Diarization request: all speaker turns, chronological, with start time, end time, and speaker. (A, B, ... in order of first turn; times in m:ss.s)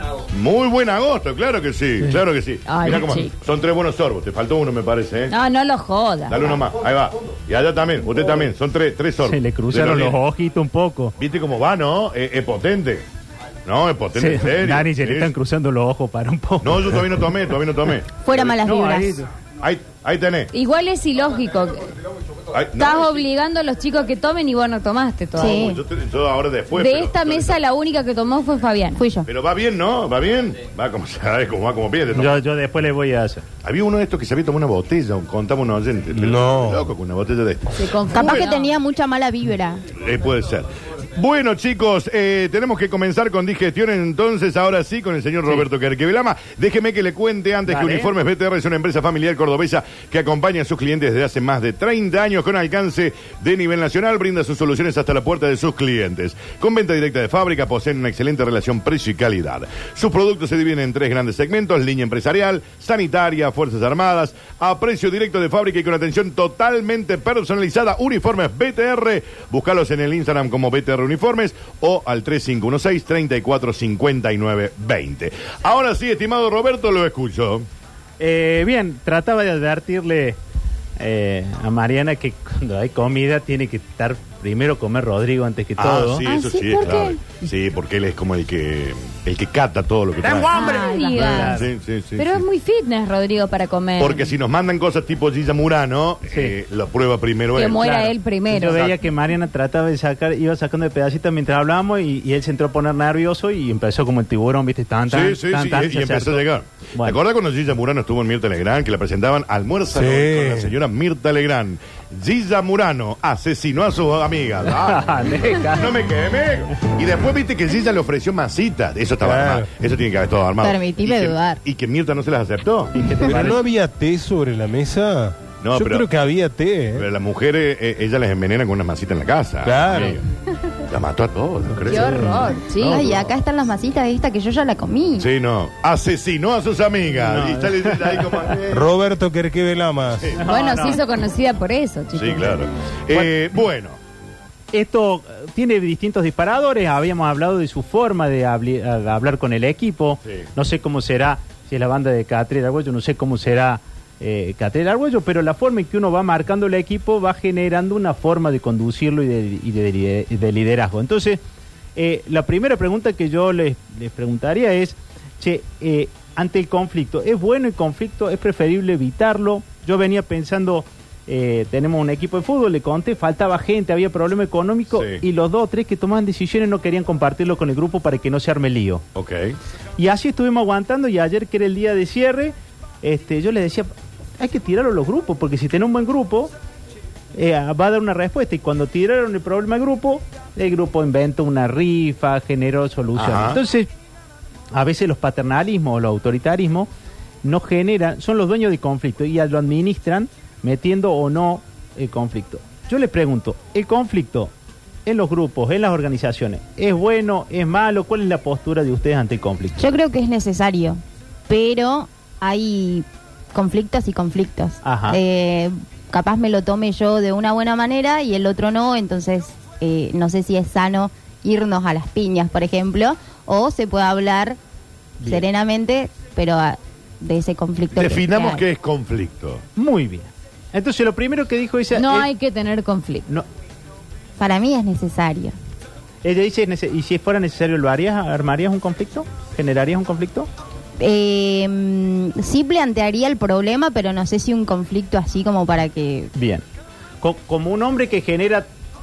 0:00.3-0:05.3 A
0:02.6-0:03.3 B
0:05.3-0:06.5 B
0:06.3-0:10.2 A
0:09.2-0:11.1 C
0:11.2-0:13.0 A
0:13.6-0:15.3 A
0:14.2-0:17.3 C
0:16.6-0:18.6 A
0:18.2-0:19.2 D
0:18.6-0:19.3 C
0:19.6-0:20.5 A
0:20.5-0:21.9 B
0:22.5-0:23.1 A
0:22.8-0:25.7 B
0:25.4-0:25.8 D
0:25.4-0:27.6 A
0:26.7-0:29.0 B
0:29.0-0:29.3 D
0:29.2-0:32.4 A
0:32.1-0:33.4 C
0:33.6-0:38.3 A
0:36.2-0:36.9 E
0:37.8-0:38.7 B
0:38.1-0:39.8 D
0:40.0-1:17.7 A
0:47.7-0:48.1 C
1:18.2-1:20.4 C
1:21.0-1:26.2 C
1:25.8-1:30.6 A
1:26.3-1:27.1 B
1:26.3-1:27.2 D
1:30.2-1:31.7 C
1:30.5-1:31.6 D
1:30.5-1:31.6 B
1:31.5-1:32.4 A
1:32.2-1:34.3 B
1:34.0-1:38.0 A
1:36.3-1:36.6 C
1:37.5-1:39.0 B
1:37.7-1:47.2 C
1:45.1-2:03.1 A
1:49.9-1:50.8 E
1:54.7-1:56.0 C
1:59.2-1:59.7 E
2:00.6-2:01.6 D
2:02.9-2:03.6 C
2:03.2-2:07.1 E
2:05.6-2:06.1 A
2:06.9-2:10.2 A
2:09.6-2:10.2 E
2:10.9-2:12.5 A
2:11.9-2:13.1 B
2:12.0-2:13.2 C
2:12.8-2:15.3 D
2:15.2-2:18.9 A
2:17.2-2:18.5 C
2:18.7-2:20.3 E
2:20.4-2:21.0 C
2:20.4-2:22.7 B
2:22.1-2:24.0 A
2:24.7-2:41.4 C
2:42.0-2:59.0 C
2:54.9-2:55.2 A
2:59.2-2:59.6 A
3:00.0-3:06.5 C
3:07.3-3:13.9 C
3:13.2-3:13.6 A
3:14.7-3:16.9 C
3:17.4-3:24.5 C
3:25.0-3:29.9 C
3:29.8-3:44.6 D
3:34.8-3:35.2 C
3:45.2-3:48.7 D
3:47.9-3:49.6 A
3:49.8-3:52.3 C
3:51.9-3:53.2 B
3:54.4-3:55.6 D
3:56.2-4:00.5 C
4:01.0-4:06.3 D
4:06.3-4:06.6 C
4:07.2-4:08.7 C